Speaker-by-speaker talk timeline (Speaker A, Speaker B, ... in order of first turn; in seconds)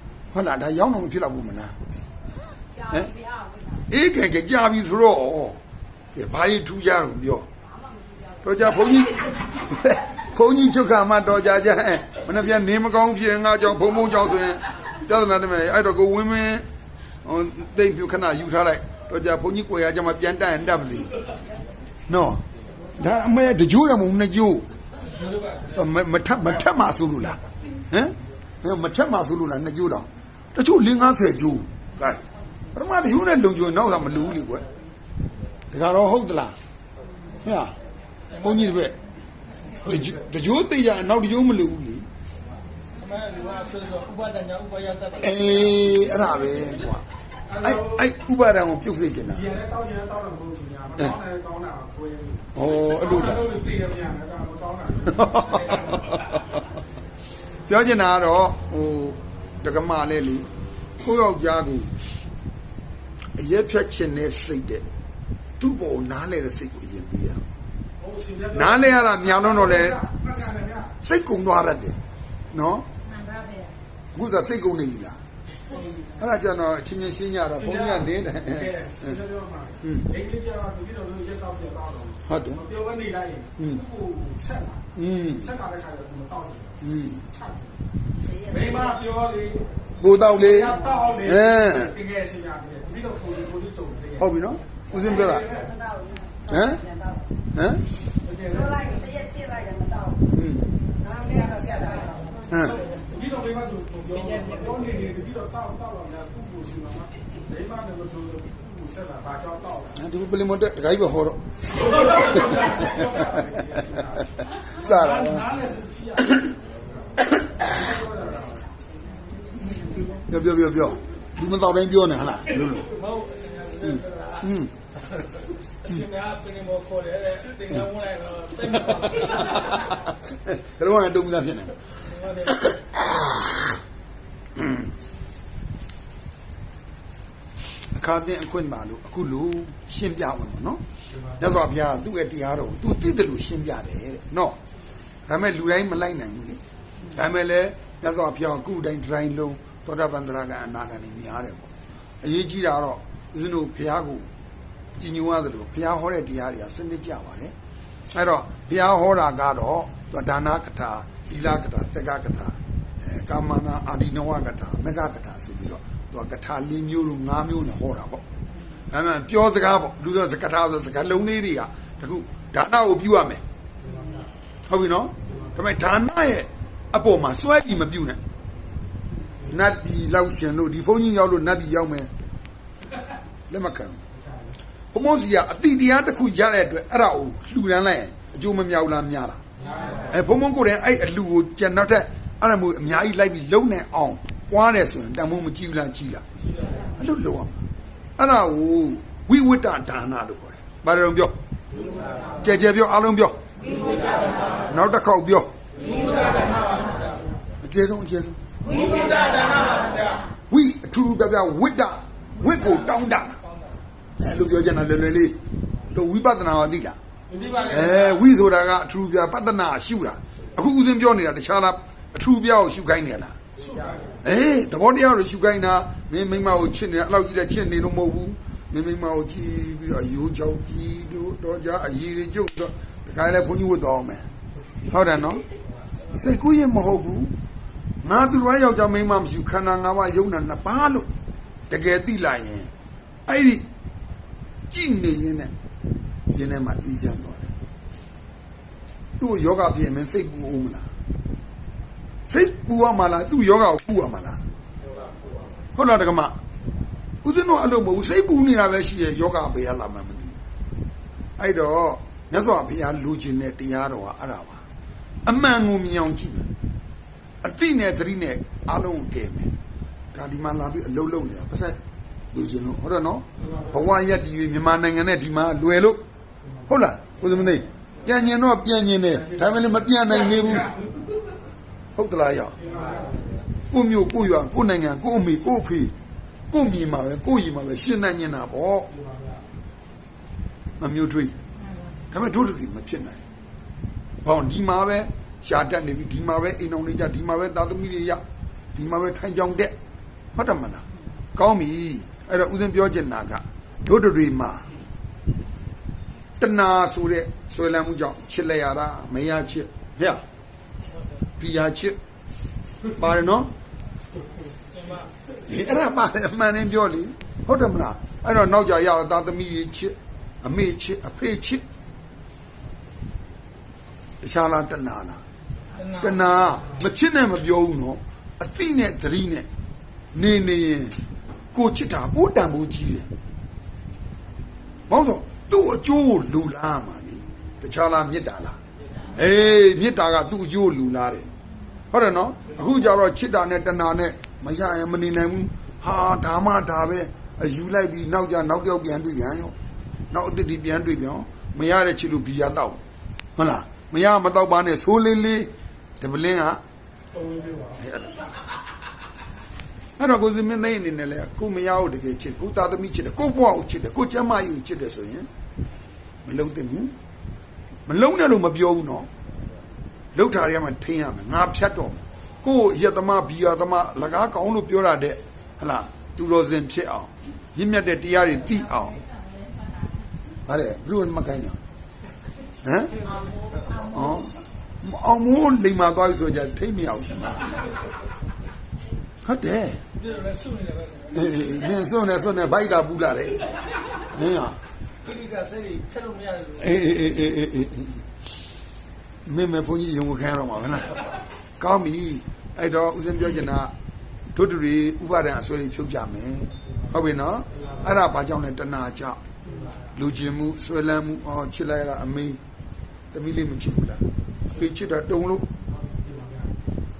Speaker A: 0.3-1.7, 2.9-3.1, 3.9-5.6, 6.1-7.5, 8.4-16.6, 17.2-21.1, 22.1-22.4, 22.9-24.7, 25.7-32.2, 32.7-34.7, 35.7-36.5, 37.4-37.7, 38.4-39.0, 39.8-42.0, 45.2-47.0, 47.6-49.5, 52.5-53.5, 55.1-56.5, 57.7-60.5, 61.0-61.9, 63.4-64.8, 65.6-67.4, 68.5-70.3, 71.0-72.0, 72.5-72.8, 74.1-75.2, 76.2-79.2, 79.8-80.1, 82.2-82.7, 83.6-83.8, 85.0-85.5, 86.8-87.3, 90.0-92.0, 94.2-95.5, 96.5-96.9, 97.5-97.8, 100.3-100.8, 102.5-102.8, 109.9-116.5, 117.2-117.9, 120.1-122.9, 123.9-124.7, 128.9-133.7, 134.6-134.9, 137.9-140.8, 141.3-144.6, 145.3-154.3, 154.9-157.5, 158.1-168.2, 168.9-173.4, 174.7-178.2, 179.4-182.1, 183.5-184.0, 184.9-189.4, 190.1-196.2, 196.8-197.6, 198.2-201.3, 202.4-203.4, 204.6-205.5, 207.6-208.8, 210.5-213.4, 214.2-215.4, 215.9-217.0, 217.6-223.4, 224.2-234.2, 234.9-235.4, 236.1-237.3, 238.0-241.1, 241.7-242.7, 243.3-243.6, 244.7-245.5, 246.3-247.5, 249.2-250.8, 252.3-254.4, 255.8-256.4, 257.2-260.4, 261.4-264.6, 265.2-266.5, 267.4-269.5, 270.1-271.8, 272.3-276.0, 276.7-280.7, 281.9-282.6, 283.7-285.9, 286.5-288.9, 290.8-291.4, 292.1-293.2, 294.2-298.2, 298.7-299.7, 300.3-300.8, 301.3-304.7, 306.4-310.2, 311.4-312.0, 312.9-313.5, 315.4-321.6, 324.2-325.2, 325.9-329.5, 330.1-331.0, 331.5-333.1, 334.9-341.2, 341.9-349.5, 350.1-352.8, 353.4-356.6, 357.8-358.2, 360.0-365.3, 366.2-366.9, 367.9-369.1, 370.1-379.0, 380.4-381.6, 382.6-383.1, 383.8-387.5, 389.2-389.8, 391.1-394.6, 396.6-398.0, 399.2-403.7, 404.3-412.4, 413.1-415.5
Speaker B: 2.8-3.8, 7.7-8.4, 73.1-73.7, 88.2-88.7, 95.6-97.3, 98.6-100.3, 101.0-102.5, 383.1-383.9
Speaker C: 25.0-25.8, 38.4-38.7, 42.9-45.8, 104.3-104.8, 122.8-124.5, 125.8-129.8, 132.0-132.7, 203.8-204.3, 205.8-207.1, 208.6-210.3, 217.3-218.1, 314.7-315.1, 325.8-326.3, 389.9-391.4, 395.0-396.8
Speaker D: 47.5-47.8, 49.5-56.0, 68.0-70.9, 75.7-76.1, 78.5-84.8, 85.5-86.7, 87.3-87.7, 88.5-89.7, 90.3-94.2, 95.1-95.7, 98.2-99.1, 101.5-102.1, 103.0-109.9, 112.7-114.2, 114.9-116.4, 117.7-118.7, 173.8-174.2, 189.6-190.0, 223.6-224.1, 282.6-283.2, 289.0-289.4, 357.1-357.8, 415.8-416.6